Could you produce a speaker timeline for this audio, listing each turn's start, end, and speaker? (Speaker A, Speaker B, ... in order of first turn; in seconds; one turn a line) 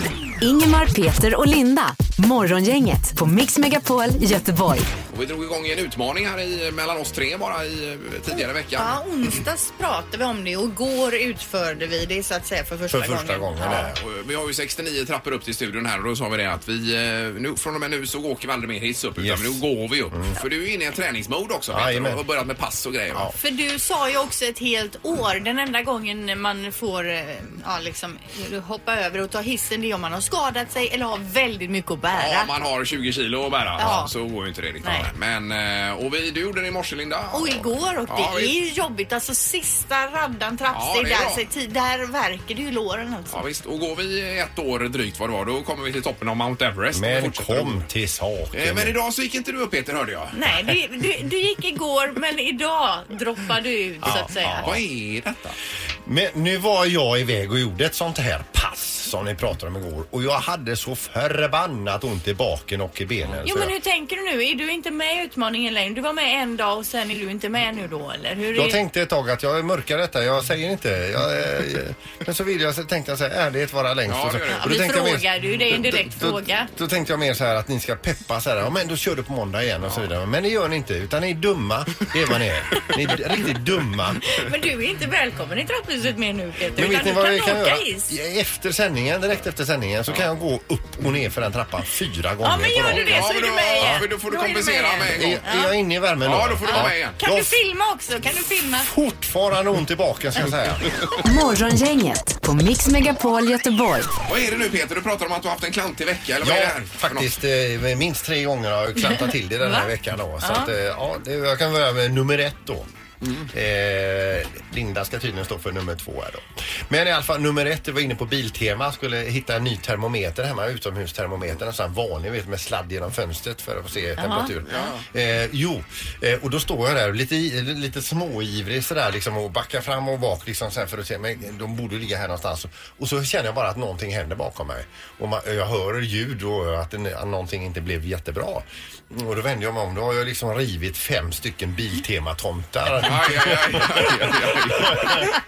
Speaker A: 0.4-4.9
Speaker B: 5.1-9.0
Speaker C: 8.3-13.9
Speaker D: 12.9-14.0
Speaker B: 13.7-23.3
Speaker D: 19.2-20.4
Speaker D: 21.7-22.2
Speaker C: 23.4-32.5
Speaker B: 32.1-38.5
Speaker C: 33.8-34.1
Speaker C: 34.8-35.1
Speaker C: 37.3-43.4
Speaker B: 40.7-41.4
Speaker B: 43.3-47.8
Speaker D: 46.9-48.9
Speaker B: 48.5-50.4
Speaker C: 50.3-54.7
Speaker D: 54.0-54.8
Speaker B: 54.6-55.5
Speaker D: 56.0-63.7
Speaker C: 63.4-68.8
Speaker D: 68.5-84.2
Speaker B: 74.1-74.7
Speaker C: 74.5-76.7
Speaker C: 84.3-88.1
Speaker D: 86.7-93.2
Speaker C: 92.4-95.7
Speaker B: 92.9-95.4
Speaker D: 95.1-97.5
Speaker B: 96.2-97.2
Speaker C: 96.7-98.9
Speaker D: 98.8-100.9
Speaker A: 101.2-104.1
Speaker B: 104.2-107.3
Speaker D: 106.4-112.9
Speaker C: 109.0-110.7
Speaker B: 113.2-113.5
Speaker D: 113.5-145.2
Speaker C: 124.2-124.5
Speaker B: 124.7-125.0
Speaker B: 143.0-145.3